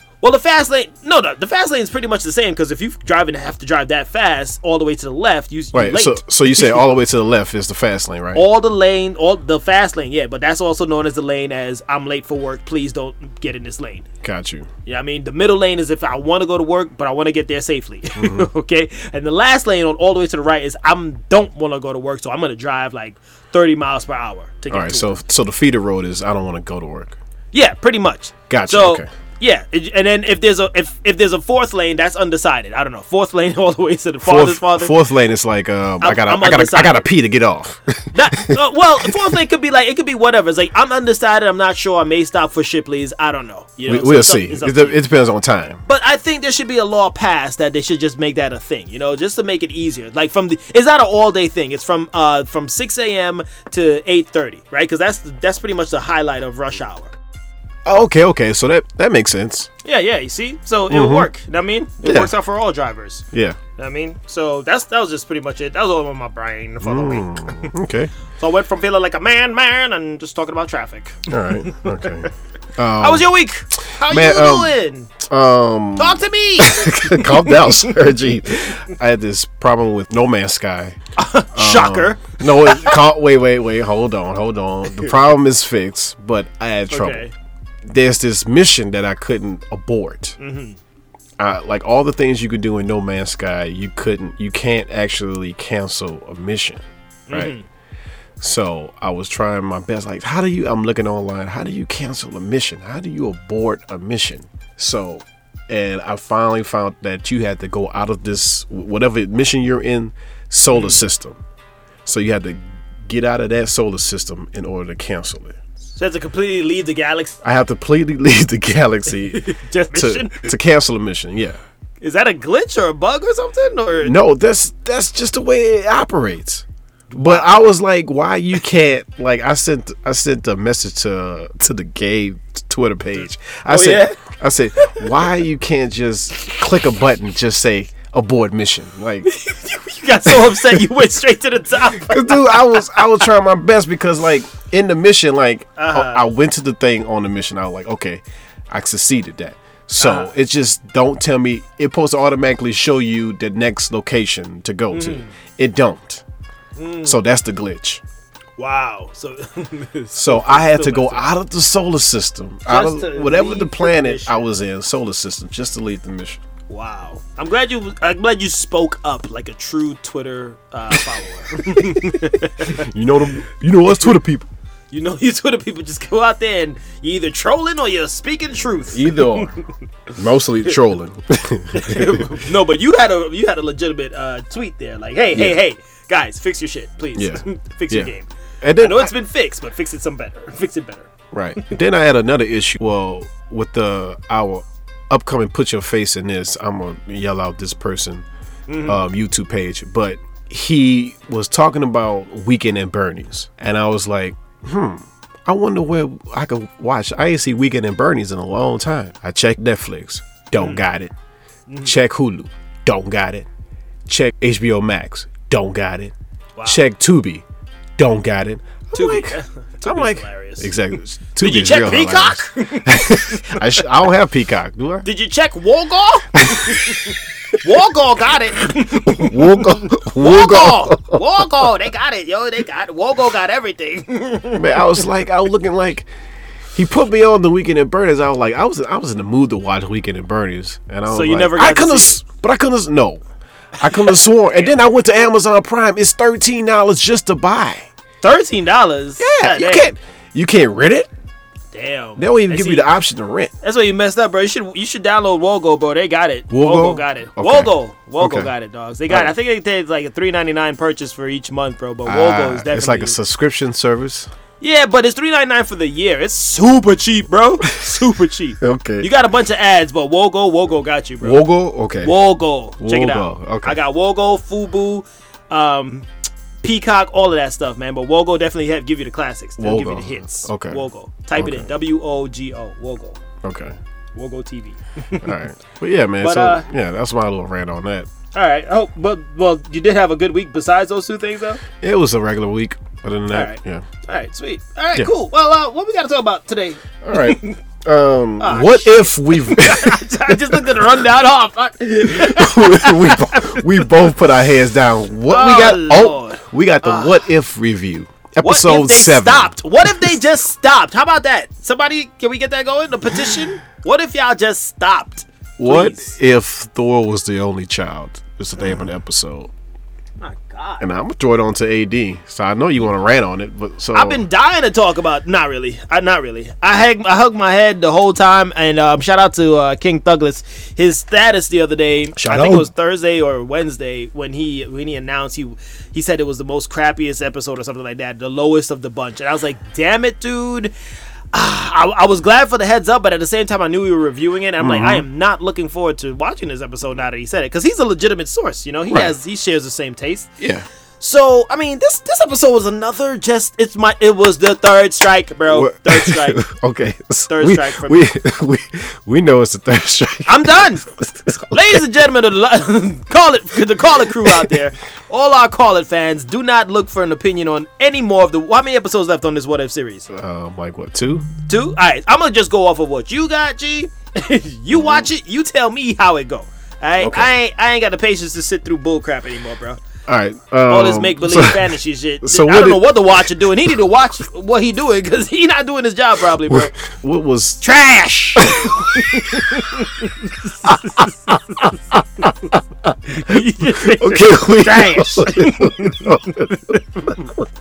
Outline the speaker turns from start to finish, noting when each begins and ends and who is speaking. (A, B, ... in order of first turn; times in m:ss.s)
0:00.2-0:06.8 A
0:05.7-0:08.4 B
0:08.3-0:14.1 A
0:14.2-0:14.7 B
0:14.9-0:25.2 A
0:18.2-0:18.5 B
0:24.7-0:27.2 B
0:27.5-0:35.0 A
0:28.5-0:29.1 B
0:34.2-0:39.1 B
0:36.0-0:37.1 A
0:38.1-0:45.0 A
0:43.9-0:45.8 B
0:45.9-0:57.2 A
0:57.8-0:59.7 B
0:59.8-1:03.3 A
1:00.9-1:01.3 B
1:02.0-1:02.3 B
1:03.3-1:03.6 B
1:03.8-1:07.7 A
1:06.8-1:08.1 B
1:08.4-1:12.1 A
1:11.3-1:13.3 B
1:13.0-1:15.1 A
1:14.0-1:21.0 B
1:16.0-1:18.0 A
1:21.2-1:23.0 A
1:21.5-1:27.2 B
1:26.9-1:27.3 A
1:27.8-1:30.4 B
1:30.4-1:30.8 A
1:31.4-1:37.5 B
1:37.3-1:37.6 A
1:38.4-1:51.4 B
1:50.7-1:51.0 A
1:52.0-1:55.6 B
1:56.0-1:57.4 A
1:57.4-2:01.6 B
1:59.3-2:00.6 A
2:02.0-2:04.2 A
2:04.0-2:19.3 B
2:07.1-2:07.6 A
2:13.7-2:14.2 A
2:14.8-2:15.3 A
2:19.2-2:23.3 A
2:20.3-2:20.8 B
2:21.9-2:36.2 B
2:25.8-2:26.3 A
2:30.0-2:30.3 A
2:34.9-2:35.3 A
2:36.8-2:37.2 A
2:37.1-2:38.0 B
2:38.6-2:41.3 A
2:40.1-2:46.4 B
2:42.7-2:44.5 A
2:46.7-2:52.9 A
2:52.7-2:54.5 B
2:54.9-2:59.5 A
2:58.9-2:59.5 B
3:00.1-3:02.2 B
3:01.7-3:11.6 A
3:05.3-3:05.6 B
3:07.2-3:08.1 B
3:08.6-3:09.1 B
3:11.3-3:18.2 B
3:18.7-3:19.0 A
3:18.9-3:31.1 B
3:31.7-3:32.0 A
3:31.8-3:33.5 B
3:34.1-3:37.4 B
3:36.6-3:36.8 A
3:38.0-3:45.1 B
3:38.9-3:40.8 A
3:41.4-3:43.7 A
3:45.0-3:55.0 A
3:46.4-3:47.0 B
3:49.2-3:51.2 B
3:54.6-3:56.1 B
3:56.7-4:03.2 B
4:01.1-4:02.2 A
4:03.8-4:07.9 B
4:03.8-4:04.8 A
4:08.2-4:09.9 A
4:09.2-4:11.1 B
4:11.7-4:12.9 A
4:12.2-4:13.5 B
4:13.6-4:23.2 A
4:16.5-4:18.5 B
4:22.0-4:24.3 B
4:24.6-4:31.4 A
4:28.6-4:29.1 B
4:31.2-4:32.2 B
4:32.0-4:36.1 A
4:32.8-4:33.8 B
4:36.6-4:43.2 A
4:39.6-4:40.8 B
4:41.4-4:41.7 B
4:43.4-4:43.8 B
4:44.2-4:45.4 A
4:45.2-4:48.1 B
4:46.2-4:46.7 A
4:48.3-4:51.6 A
4:51.8-4:53.8 B
4:53.3-4:57.6 A
4:57.0-5:00.8 B
4:58.4-5:04.2 A
5:02.1-5:10.1 B
5:05.3-5:07.2 A
5:08.4-5:16.2 A
5:15.6-5:19.5 B
5:18.6-5:18.8 A
5:20.2-5:20.8 A
5:20.8-5:24.2 B
5:23.9-5:40.7 A
5:32.2-5:32.7 B
5:41.3-5:50.3 A
5:44.6-5:45.0 B
5:48.9-5:49.1 B
5:50.4-5:50.6 B
5:51.0-5:56.4 A
5:55.5-6:01.8 B
5:57.3-5:58.0 A
6:00.3-6:10.1 A
6:04.1-6:04.5 B
6:10.1-6:11.3 B
6:11.5-6:19.8 A
6:14.7-6:15.1 B
6:17.0-6:17.3 B
6:20.1-6:23.0 B
6:20.7-6:26.8 A
6:26.5-6:27.6 B
6:27.6-6:32.3 A
6:28.4-6:29.6 B
6:32.2-6:32.9 B
6:33.1-6:37.3 A
6:33.8-6:36.8 B